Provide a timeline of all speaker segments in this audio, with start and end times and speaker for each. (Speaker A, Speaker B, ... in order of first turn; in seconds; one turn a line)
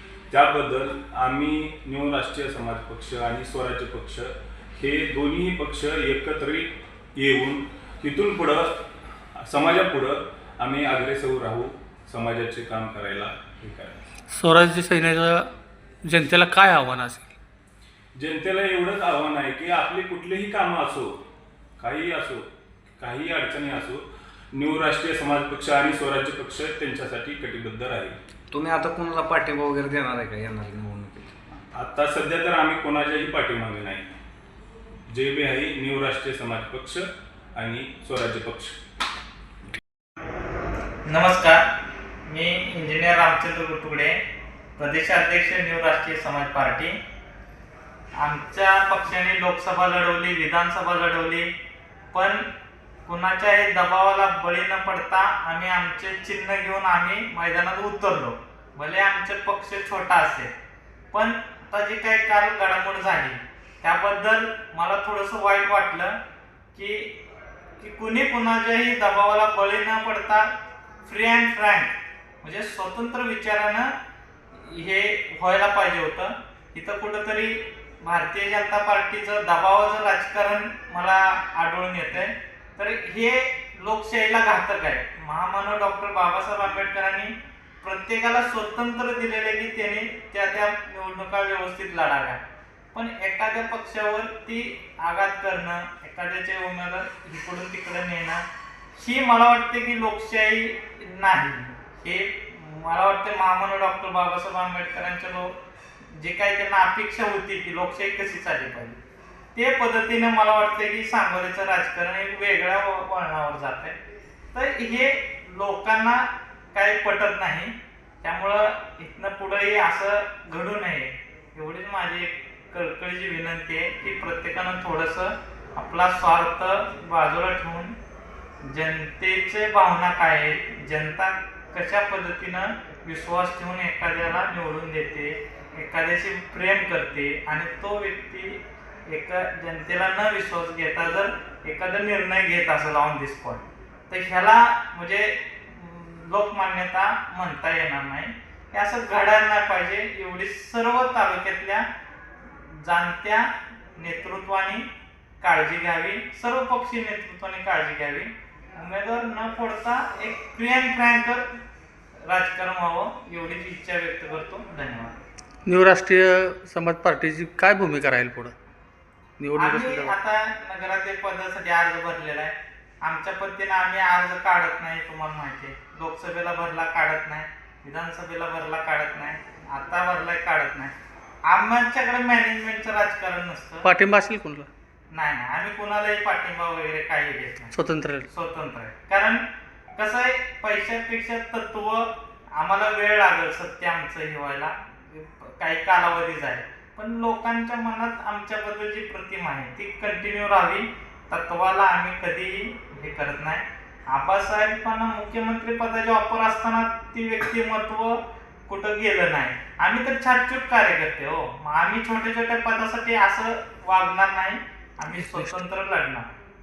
Speaker A: 0.3-8.8
Speaker A: 9.4-13.9
Speaker B: 14.3-15.5
Speaker B: 16.0-17.3
Speaker A: 18.2-21.1
Speaker A: 21.8-22.4
Speaker A: 23.0-24.0
Speaker A: 24.5-28.2
Speaker C: 28.5-31.3
Speaker A: 31.7-34.1
Speaker A: 35.1-37.0
Speaker A: 37.6-38.8
Speaker D: 41.1-41.6
Speaker D: 42.3-44.2
Speaker D: 44.8-47.0
Speaker D: 48.2-51.5
Speaker D: 52.1-52.5
Speaker D: 53.1-60.5
Speaker D: 61.1-66.2
Speaker D: 66.7-67.1
Speaker D: 67.8-70.5
Speaker D: 71.0-73.9
Speaker D: 74.5-92.4
Speaker D: 92.9-98.4
Speaker D: 99.0-105.5
Speaker D: 106.1-109.0
Speaker D: 109.5-114.0
Speaker D: 114.5-127.9
Speaker D: 128.7-151.8
Speaker D: 152.5-154.9
Speaker D: 155.4-161.4
Speaker D: 162.3-165.2
Speaker B: 165.7-168.5
Speaker B: 169.4-170.2
Speaker D: 169.6-180.9
Speaker D: 181.5-183.9
Speaker B: 183.8-184.7
Speaker D: 185.1-187.8
Speaker B: 187.7-188.3
Speaker D: 188.3-189.4
Speaker D: 190.0-216.3